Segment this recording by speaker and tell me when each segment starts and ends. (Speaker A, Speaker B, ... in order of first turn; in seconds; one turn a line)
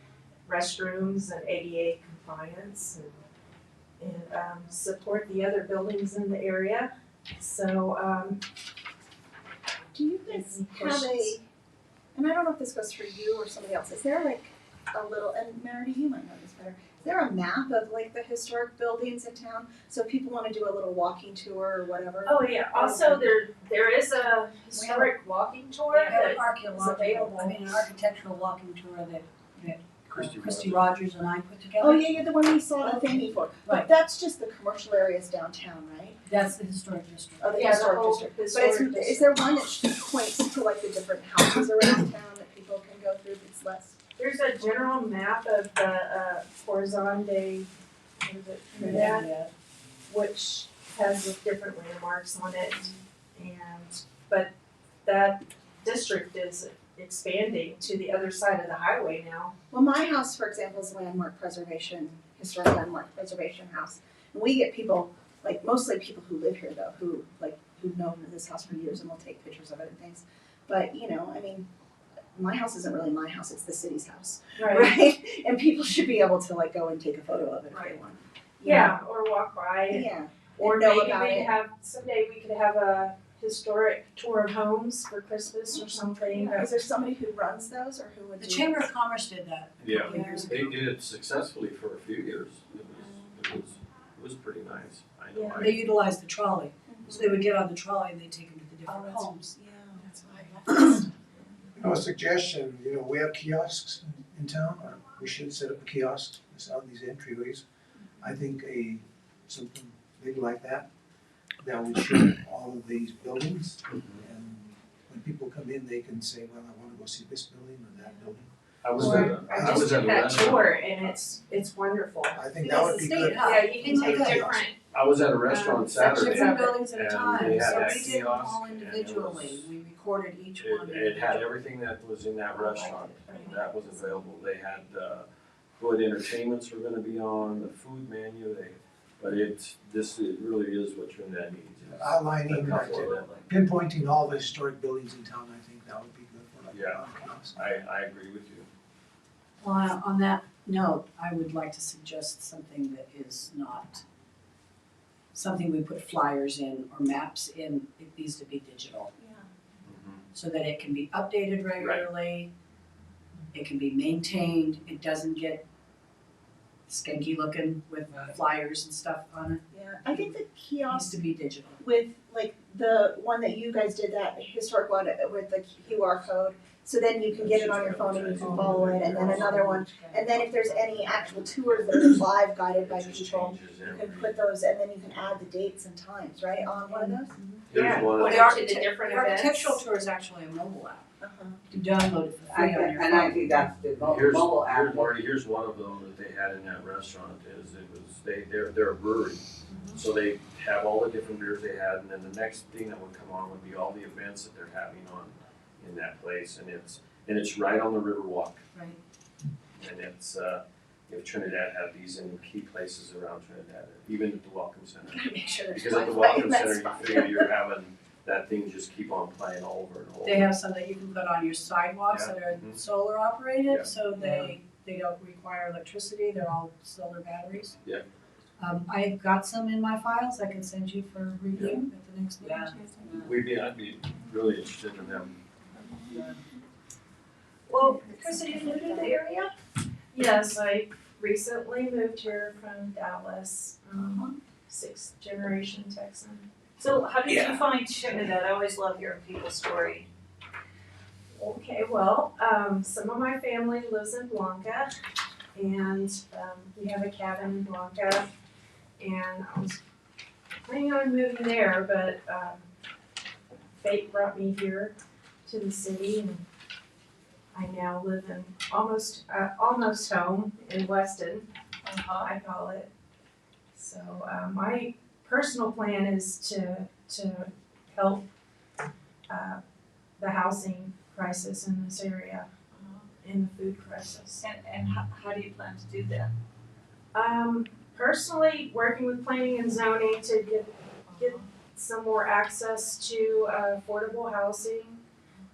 Speaker A: 0.5-3.1
Speaker A: 4.0-8.4
Speaker B: 9.9-11.4
Speaker A: 10.2-11.4
Speaker B: 12.1-23.2
Speaker A: 22.2-27.6
Speaker C: 24.7-25.2
Speaker C: 25.9-32.2
Speaker D: 30.1-30.9
Speaker B: 31.8-36.2
Speaker C: 32.8-33.9
Speaker C: 36.2-37.8
Speaker B: 37.4-44.0
Speaker A: 37.5-39.3
Speaker A: 44.2-47.7
Speaker A: 48.2-49.3
Speaker B: 48.8-49.1
Speaker C: 48.8-49.5
Speaker A: 50.1-54.5
Speaker A: 55.0-59.5
Speaker B: 59.7-71.7
Speaker B: 72.3-79.0
Speaker A: 74.6-74.9
Speaker A: 78.6-86.7
Speaker B: 79.9-81.5
Speaker B: 86.3-88.9
Speaker C: 88.4-90.8
Speaker D: 89.8-95.8
Speaker A: 90.1-90.5
Speaker B: 93.0-93.3
Speaker A: 95.3-95.7
Speaker C: 95.6-99.5
Speaker B: 96.9-97.4
Speaker B: 98.9-101.0
Speaker C: 100.7-101.0
Speaker E: 101.8-107.6
Speaker E: 108.2-110.9
Speaker E: 111.6-120.3
Speaker D: 113.9-114.2
Speaker D: 118.8-120.7
Speaker A: 119.0-122.6
Speaker E: 122.3-124.7
Speaker C: 122.6-124.5
Speaker A: 123.3-124.7
Speaker D: 124.9-129.7
Speaker A: 125.5-126.6
Speaker C: 126.0-131.5
Speaker D: 130.6-135.2
Speaker C: 132.6-133.2
Speaker A: 133.3-133.6
Speaker D: 135.8-143.3
Speaker E: 141.9-147.7
Speaker F: 143.0-143.4
Speaker D: 146.7-148.7
Speaker C: 149.6-154.0
Speaker C: 155.3-159.1
Speaker B: 159.2-159.4
Speaker D: 159.9-160.2
Speaker C: 160.3-162.5
Speaker D: 161.8-162.1
Speaker C: 163.5-165.6
Speaker C: 166.9-170.4
Speaker B: 169.7-171.1
Speaker C: 170.9-171.8
Speaker B: 171.8-187.3
Speaker D: 177.3-179.6
Speaker D: 180.2-182.1
Speaker D: 182.8-184.4
Speaker D: 187.7-188.6
Speaker A: 187.7-189.8
Speaker C: 188.2-191.1
Speaker B: 191.2-191.6
Speaker C: 191.7-193.5
Speaker G: 192.5-195.2
Speaker D: 194.0-208.6
Speaker D: 209.8-220.5
Speaker B: 215.1-217.5
Speaker C: 220.2-227.7
Speaker D: 222.1-222.8
Speaker G: 224.2-224.5
Speaker C: 228.6-232.8
Speaker D: 231.5-231.9
Speaker G: 232.4-233.3
Speaker D: 233.2-235.4
Speaker B: 235.8-236.3
Speaker B: 237.7-239.5
Speaker F: 238.2-239.1
Speaker A: 240.1-246.5
Speaker B: 244.0-244.3
Speaker F: 246.8-250.1
Speaker A: 251.3-254.9
Speaker A: 255.5-258.3
Speaker A: 259.0-259.8
Speaker A: 260.6-262.7
Speaker A: 263.8-264.9
Speaker A: 265.4-266.4
Speaker A: 267.5-271.5
Speaker F: 271.8-272.3
Speaker A: 272.2-272.9
Speaker A: 273.7-278.3
Speaker A: 279.3-279.6
Speaker A: 280.2-282.5
Speaker A: 283.1-284.4
Speaker F: 284.3-286.3
Speaker A: 287.1-295.0
Speaker F: 291.1-291.5